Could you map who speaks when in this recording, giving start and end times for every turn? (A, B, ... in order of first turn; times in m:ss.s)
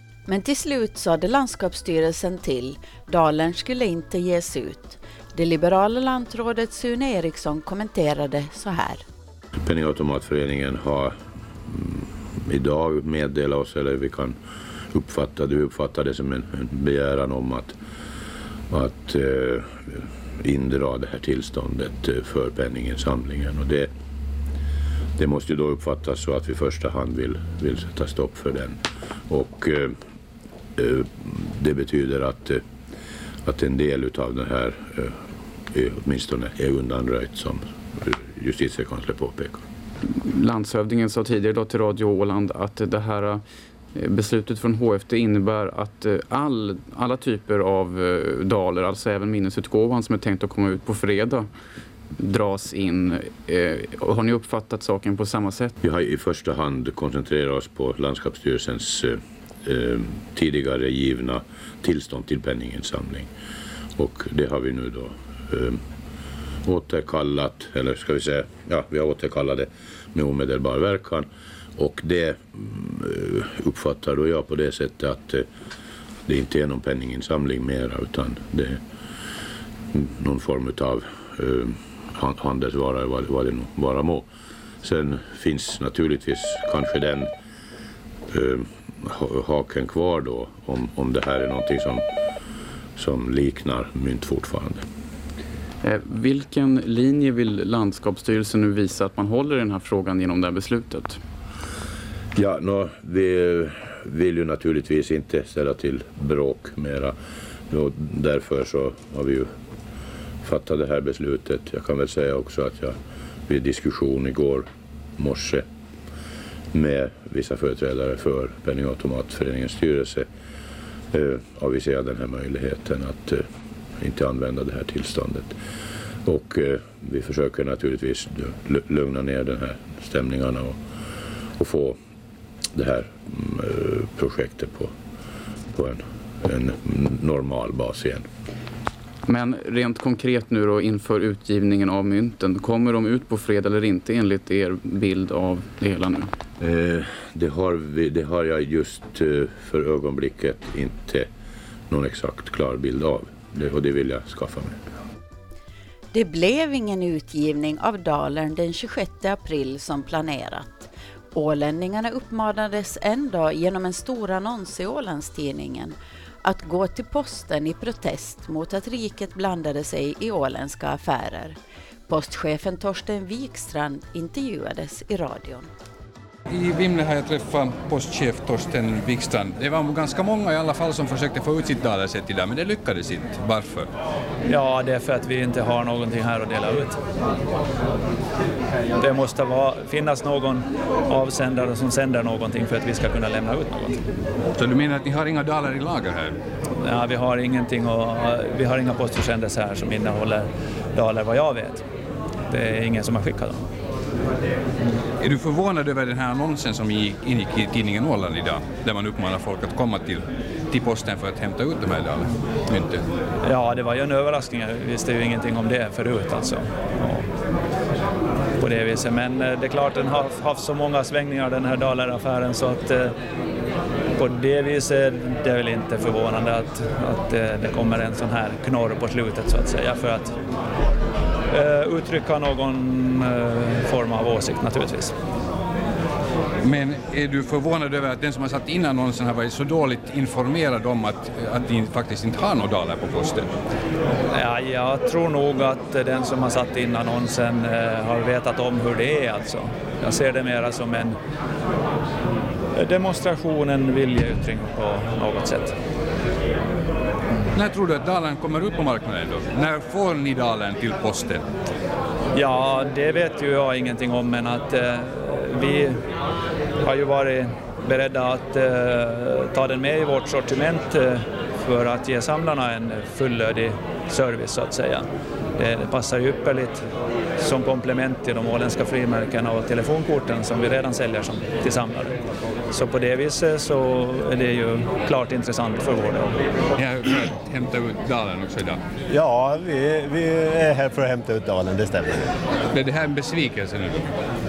0:00.3-0:09.0 A
0:09.6-0:14.4 B
0:14.9-0:17.8 B
0:18.7-0:23.9 B
0:25.2-0:30.0 B
0:30.8-0:32.6 B
0:33.4-0:35.2 B
0:35.7-0:39.6 B
0:40.1-0:43.4 C
0:44.0-0:51.5 C
0:52.2-0:55.8 C
0:55.8-1:03.3 B
1:04.0-1:05.8 B
1:06.6-1:15.5 B
1:16.3-1:18.8 B
1:19.9-1:24.3 B
1:24.8-1:27.3 B
1:28.3-1:32.1 B
1:33.0-1:34.8 B
1:35.8-1:41.2 C
1:42.4-1:47.2 B
1:47.7-1:49.5 B
1:50.4-1:54.7 B
1:55.2-1:55.7 B
1:56.7-2:00.3 B
2:01.1-2:03.5 B
2:04.0-2:05.6 B
2:06.2-2:10.8 B
2:11.6-2:12.0 B
2:12.7-2:14.9 B
2:15.7-2:18.3 B
2:19.3-2:26.3 C
2:26.6-2:31.3 B
2:31.9-2:34.8 B
2:36.1-2:51.6 A
2:52.1-2:55.7 A
2:56.5-3:03.9 D
3:04.5-3:07.0 E
3:09.0-3:14.0 E
3:14.5-3:16.4 D
3:16.8-3:21.9 E
3:22.5-3:23.7 E
3:25.2-3:33.0 D
3:33.4-3:37.3 E
3:38.6-3:43.2 E
3:44.2-3:50.4 E
3:51.5-3:55.2 E
3:56.6-4:03.5 D
4:04.3-4:11.2 E
4:12.8-4:15.8 E
4:17.5-4:21.4 D
4:22.4-4:26.1 E
4:26.8-4:36.8 E
4:37.4-4:42.2 E
4:42.7-4:46.3 E
4:46.8-4:48.8 D
4:49.1-4:52.3 F
4:52.7-4:54.1 D